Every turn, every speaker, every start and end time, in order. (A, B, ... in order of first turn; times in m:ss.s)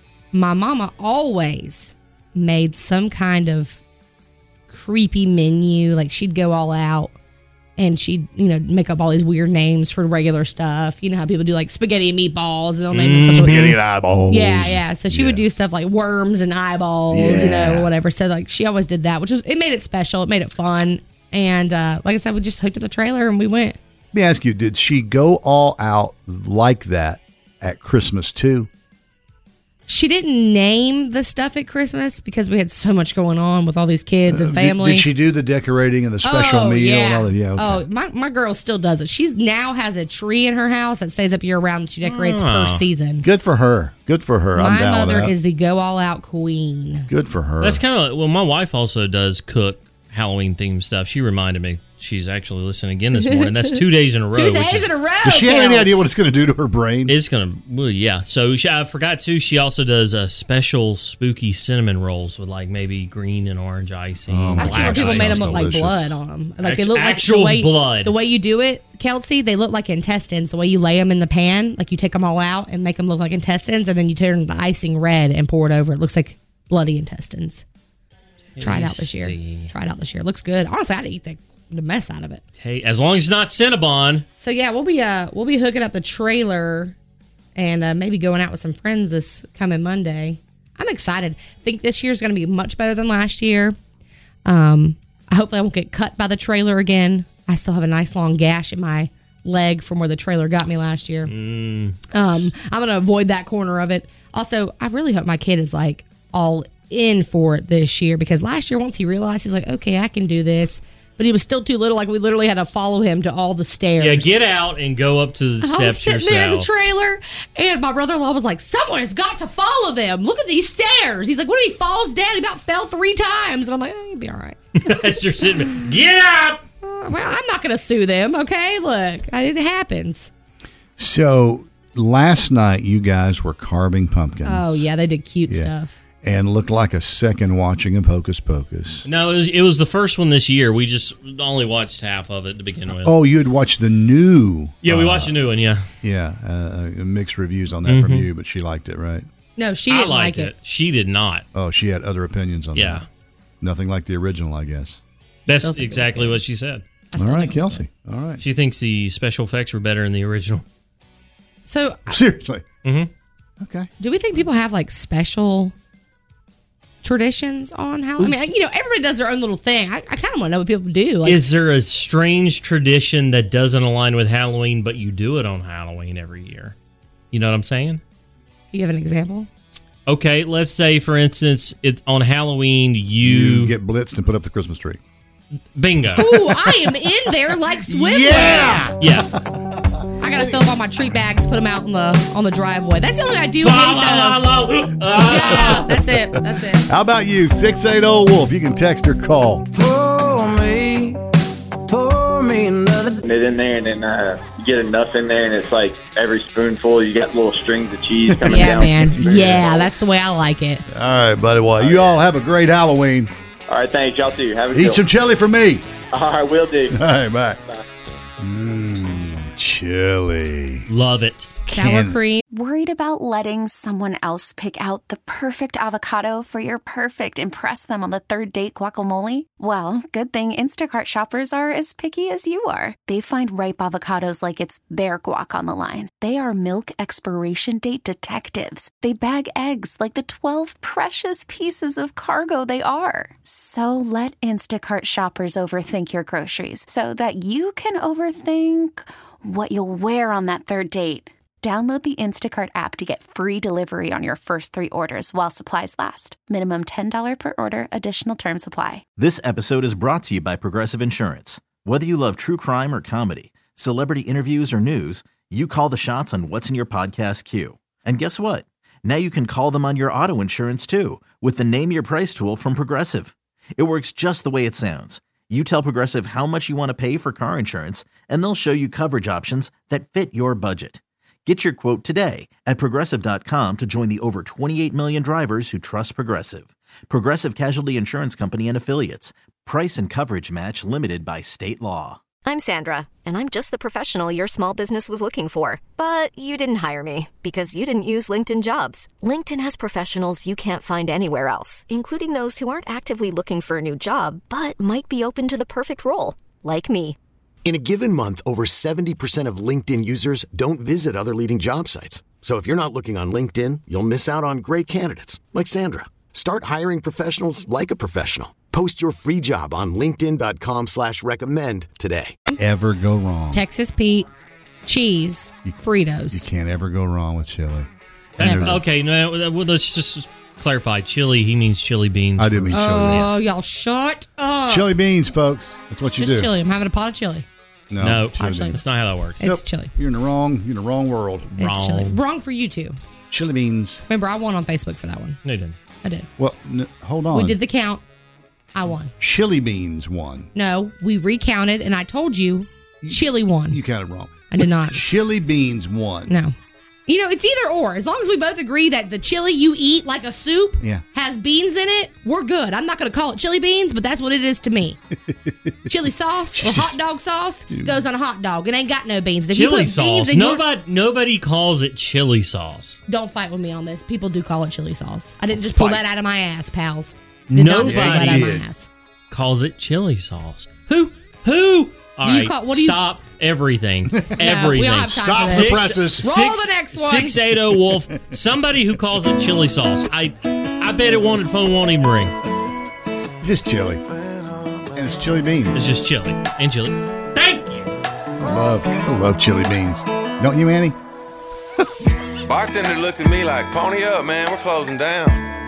0:00.3-0:03.8 A
0:04.7-0:07.1 A
0:07.8-0:13.7 A
0:12.9-0:13.8 B
0:13.2-0:15.4 C
0:14.3-0:23.8 A
0:17.1-0:17.9 C
0:24.1-0:28.7 C
0:29.9-0:35.1 A
0:34.3-0:37.8 C
0:36.2-0:43.2 A
0:42.0-0:42.8 B
0:43.2-0:45.4 C
0:44.6-0:47.1 A
0:47.1-0:47.8 C
0:47.6-0:54.9 B
0:53.1-0:53.8 A
0:54.3-0:56.1 A
0:55.2-0:57.2 C
0:57.1-1:05.6 B
1:04.3-1:06.2 C
1:04.6-1:17.6 A
1:06.6-1:08.1 B
1:18.5-1:19.7 B
1:18.6-1:22.4 A
1:22.6-1:24.2 B
1:24.4-1:26.9 A
1:27.6-1:33.8 A
1:34.4-1:41.3 A
1:41.3-1:42.0 B
1:42.1-1:54.4 A
1:54.0-1:56.7 B
1:55.6-2:05.0 A
2:04.8-2:06.6 B
2:06.8-2:10.3 A
2:11.0-2:14.9 C
2:14.4-2:16.0 A
2:16.2-2:19.0 C
2:19.0-2:23.2 B
2:22.9-2:25.4 C
2:24.8-2:25.8 B
2:26.0-2:29.2 C
2:27.8-2:28.3 B
2:29.6-2:30.5 A
2:29.9-2:31.4 B
2:31.5-2:33.0 C
2:32.7-2:33.0 B
2:33.6-2:35.0 C
2:35.5-2:36.8 B
2:35.6-2:36.4 A
2:37.1-2:37.8 A
2:37.2-2:38.4 C
2:38.4-2:40.6 B
2:41.6-2:42.2 A
2:42.1-2:42.6 C
2:42.8-2:43.1 B
2:43.6-2:43.9 C
2:44.0-2:45.7 A
2:47.0-2:51.4 A
2:51.2-2:56.7 B
2:57.3-2:58.0 B
2:58.7-2:59.5 A
3:00.1-3:03.7 B
3:03.2-3:05.0 C
3:05.7-3:06.6 B
3:06.2-3:08.9 A
3:07.8-3:10.5 C
3:08.4-3:09.3 B
3:10.2-3:14.4 A
3:13.6-3:15.9 B
3:15.2-3:16.9 A
3:15.3-3:19.6 C
3:19.7-3:21.2 D
3:21.9-3:23.2 D
3:23.2-3:29.9 E
3:28.3-3:29.7 C
3:28.5-3:30.8 A
3:30.9-3:33.3 C
3:31.8-3:32.2 E
3:33.7-3:35.0 E
3:34.7-3:35.8 C
3:36.1-3:37.0 E
3:36.9-3:37.6 C
3:38.4-3:40.8 C
3:40.9-3:41.5 B
3:41.6-3:42.4 A
3:41.7-3:42.2 C
3:42.5-4:19.0 F
4:19.2-4:52.2 G
4:52.4-5:07.2 H
5:07.6-5:22.4 I
5:22.6-5:23.6 C
5:23.5-5:24.3 A
5:24.8-5:26.4 A
5:26.3-5:27.9 C
5:28.4-5:33.3 B
5:28.4-5:28.8 C
5:28.4-5:28.8 A
5:32.4-5:33.3 C
5:32.7-5:34.9 A
5:34.7-5:36.5 C
5:36.1-5:37.4 A
5:37.9-5:38.8 C
5:38.0-5:39.4 B
5:38.4-5:38.8 A
5:39.4-5:39.9 A
5:39.4-5:41.6 C
5:41.6-5:42.2 B
5:41.6-5:43.0 A
5:43.3-5:44.0 C
5:44.1-5:45.4 A
5:45.4-5:45.8 B
5:46.4-5:47.6 C
5:47.3-5:48.0 A
5:48.7-5:49.1 A
5:49.2-5:50.5 C
5:50.5-5:53.8 A
5:53.0-5:56.3 C
5:54.5-5:55.0 A
5:56.3-5:56.5 A
5:57.1-6:05.0 A
6:05.3-6:05.7 C
6:05.9-6:10.6 A
6:06.6-6:07.0 C
6:09.5-6:13.0 B
6:13.1-6:18.9 A
6:15.5-6:16.0 C
6:17.5-6:18.6 B
6:17.8-6:18.6 C
6:19.3-6:32.3 B
6:22.2-6:23.0 A
6:24.4-6:27.4 A
6:25.1-6:26.4 C
6:33.4-6:34.0 C
6:34.9-6:35.8 C
6:35.7-6:37.9 B
6:38.4-6:41.0 C
6:42.5-6:45.4 J